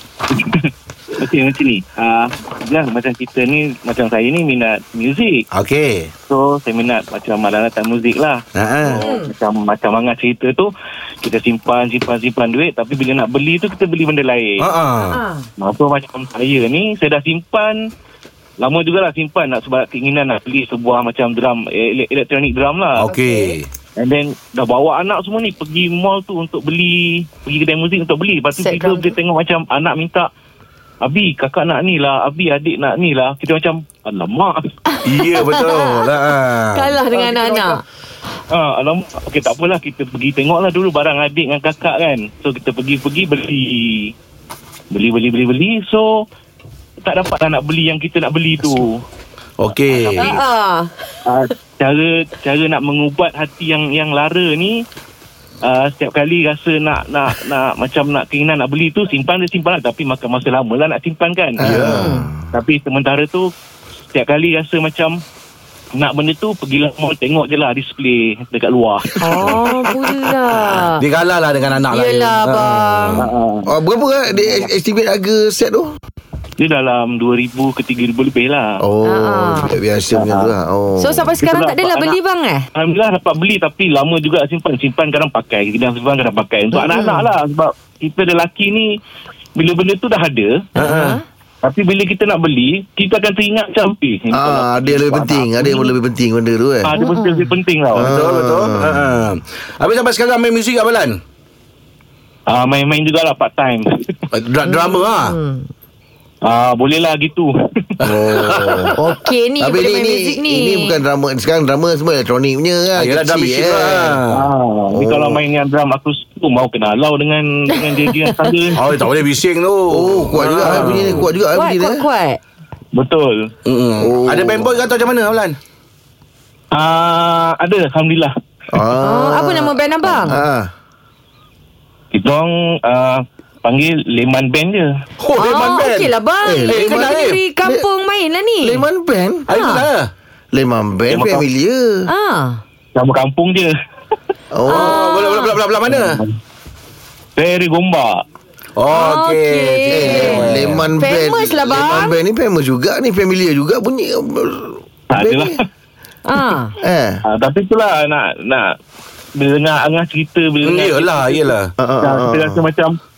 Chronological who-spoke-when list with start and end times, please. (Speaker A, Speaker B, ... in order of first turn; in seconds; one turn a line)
Speaker A: 0.3-5.4
Speaker B: 5.5-6.1
Speaker A: 6.3-10.7
Speaker B: 8.6-9.1
Speaker C: 8.9-9.3
Speaker A: 11.2-14.7
Speaker B: 14.6-15.2
Speaker C: 15.1-15.4
Speaker A: 15.6-17.8
Speaker A: 18.6-23.1
Speaker B: 23.0-23.7
Speaker C: 23.1-23.6
Speaker A: 24.0-30.3
Speaker C: 28.6-29.1
Speaker A: 31.0-34.7
Speaker C: 34.9-36.0
Speaker B: 35.0-37.0
Speaker C: 36.7-37.8
Speaker A: 37.1-37.8
Speaker A: 38.5-44.1
Speaker A: 44.9-46.2
Speaker A: 47.0-49.0
Speaker B: 49.6-50.3
Speaker A: 49.9-50.4
Speaker C: 50.1-50.9
Speaker A: 51.2-54.8
Speaker A: 55.6-61.7
Speaker D: 61.6-62.3
Speaker B: 61.6-62.1
Speaker C: 61.9-62.3
Speaker A: 62.5-63.5
Speaker A: 64.1-65.2
Speaker A: 65.9-69.1
Speaker B: 69.1-73.3
Speaker C: 69.2-71.0
Speaker C: 71.9-73.2
Speaker A: 73.2-73.7
Speaker D: 73.7-75.9
Speaker A: 76.6-78.8
Speaker D: 78.8-81.3
Speaker C: 79.0-79.7
Speaker A: 80.1-80.5
Speaker C: 81.0-82.6
Speaker A: 81.4-82.2
Speaker A: 82.7-88.9
Speaker C: 86.7-87.2
Speaker A: 89.6-90.7
Speaker B: 90.8-91.2
Speaker C: 90.8-91.2
Speaker A: 91.6-95.9
Speaker D: 94.3-96.9
Speaker A: 96.8-98.1
Speaker C: 96.9-97.5
Speaker D: 97.9-99.2
Speaker B: 98.0-101.2
Speaker A: 102.5-103.9
Speaker B: 104.3-105.3
Speaker C: 104.7-105.7
Speaker A: 106.4-107.5
Speaker B: 108.0-108.9
Speaker D: 108.0-114.2
Speaker C: 108.9-110.9
Speaker B: 113.0-114.4
Speaker A: 114.3-119.0
Speaker B: 118.8-121.3
Speaker D: 119.9-122.0
Speaker A: 120.7-121.0
Speaker C: 121.5-122.4
Speaker A: 122.9-123.5
Speaker B: 123.7-125.6
Speaker D: 124.0-124.7
Speaker A: 126.7-128.3
Speaker D: 128.7-130.7
Speaker C: 129.0-130.4
Speaker A: 132.1-134.9
Speaker B: 135.2-136.1
Speaker C: 135.4-138.8
Speaker D: 136.4-137.0
Speaker B: 136.7-137.4
Speaker D: 138.6-139.4
Speaker B: 139.5-140.1
Speaker C: 139.5-139.8
Speaker D: 140.5-142.1
Speaker A: 141.1-141.4
Speaker C: 142.1-142.6
Speaker A: 142.9-143.7
Speaker D: 144.5-145.0
Speaker C: 144.7-145.5
Speaker B: 144.7-146.2
Speaker A: 145.9-146.3
Speaker A: 147.4-148.2
Speaker B: 148.8-150.9
Speaker C: 148.9-150.4
Speaker D: 149.9-155.5
Speaker C: 151.0-152.2
Speaker A: 155.1-155.6
Speaker C: 156.3-156.7
Speaker D: 156.8-157.2
Speaker A: 157.3-158.7
Speaker A: 159.4-162.9
Speaker B: 160.6-161.7
Speaker D: 161.8-162.6